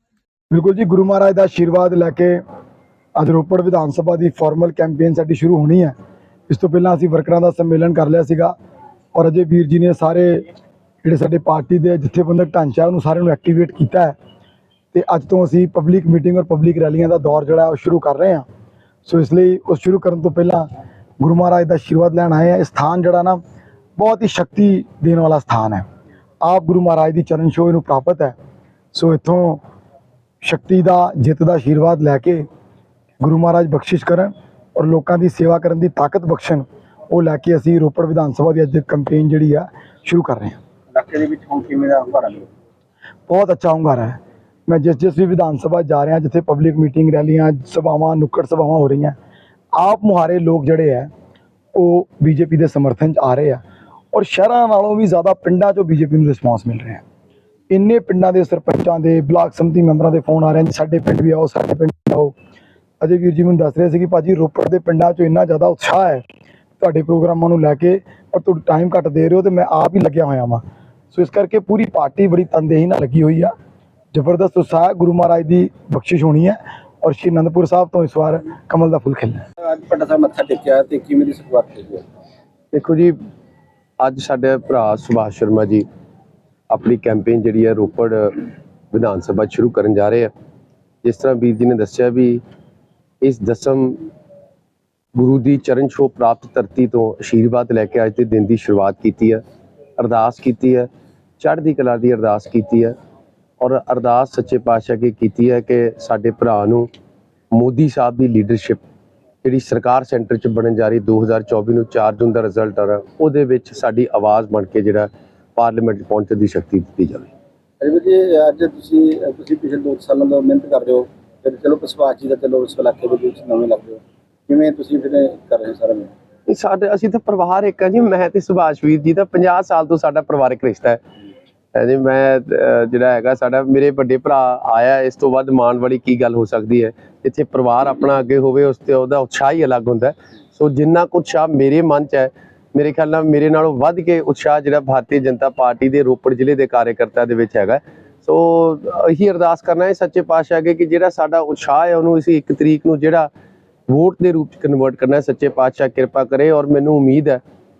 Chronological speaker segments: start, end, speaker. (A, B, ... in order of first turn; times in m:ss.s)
0:00.5-0:02.4 A
0:03.2-0:05.9 A
0:06.5-0:08.5 A
0:09.1-0:10.4 A
0:11.0-0:14.1 A
0:14.9-0:18.4 A
0:19.0-0:20.7 A
0:21.2-0:23.4 A
0:24.0-0:25.8 A
0:26.4-0:28.4 A
0:28.9-0:29.6 A
0:30.4-0:32.4 A
0:33.2-0:40.6 A
0:40.9-0:42.5 B
0:43.3-0:49.1 A
0:49.8-0:51.1 A
0:51.7-0:53.6 A
0:54.1-0:57.0 A
0:57.7-1:02.3 A
1:03.0-1:06.2 A
1:06.8-1:10.6 A
1:11.1-1:13.5 A
1:14.1-1:19.4 A
1:19.6-1:22.0 B
1:22.7-1:23.2 C
1:24.0-1:25.8 C
1:26.7-1:30.3 C
1:31.0-1:32.4 C
1:33.2-1:34.0 C
1:35.1-1:39.4 C
1:40.0-1:40.9 C
1:41.4-1:42.9 C
1:43.6-1:46.9 C
1:47.5-1:48.8 C
1:49.4-1:57.3 C
1:57.8-2:06.1 B
2:06.5-2:11.0 C
2:11.7-2:33.3 C
2:33.9-2:37.4 C